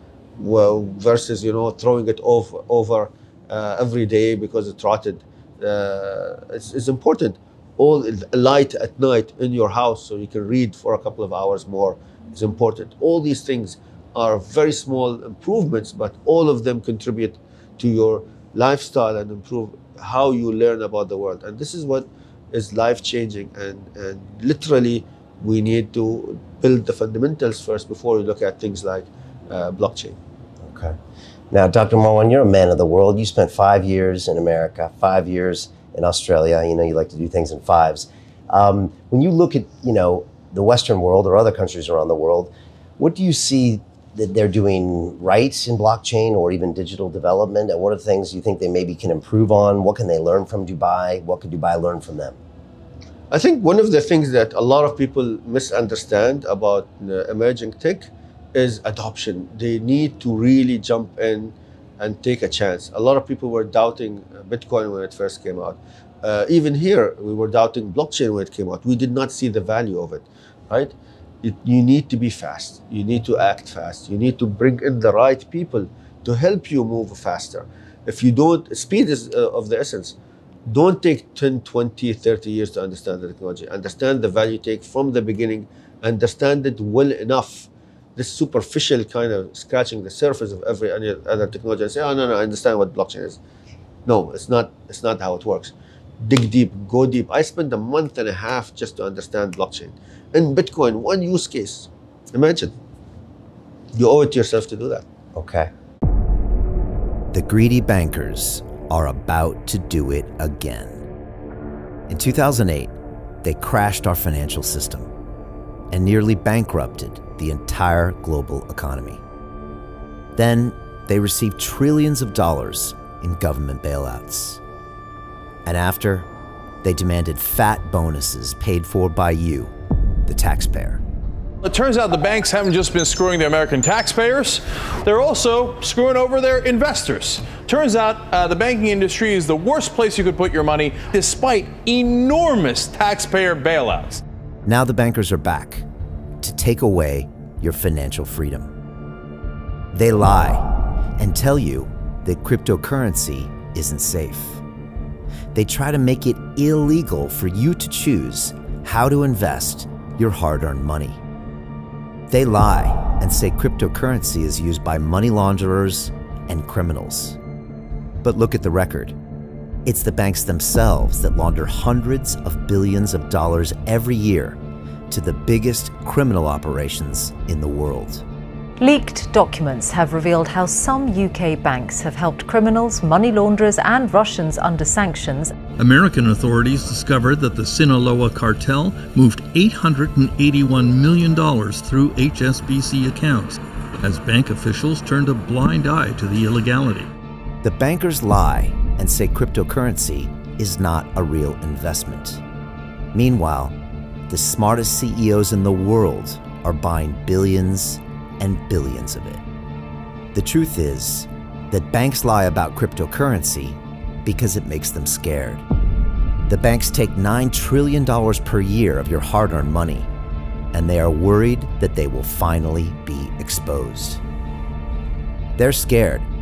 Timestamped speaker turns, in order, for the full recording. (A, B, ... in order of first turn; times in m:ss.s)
0:00.4-0:30.2 A
0:30.6-0:30.9 B
0:31.5-0:52.4 B
0:53.3-1:20.2 A
1:20.7-1:33.4 A
1:34.0-1:42.7 A
1:43.9-1:45.0 A
1:45.4-1:45.7 B
1:47.3-1:51.0 C
1:52.1-1:55.1 C
1:55.9-1:59.2 C
2:00.4-2:04.6 C
2:05.6-2:06.3 C
2:06.8-2:09.7 C
2:10.3-2:11.0 C
2:11.6-2:24.2 D
2:24.6-2:25.9 C
2:26.4-2:28.7 C
2:29.9-2:34.6 C
2:35.5-2:41.2 C
2:42.3-2:47.4 C
2:48.2-2:49.2 C
2:49.8-2:54.6 C
2:55.1-2:58.2 C
2:58.8-3:05.5 E
3:05.8-3:17.1 F
3:17.6-3:22.4 C
3:23.1-3:23.7 C
3:24.3-3:29.4 C
3:30.3-3:35.6 C
3:36.4-3:40.1 C
3:40.7-3:44.2 C
3:45.6-3:46.3 C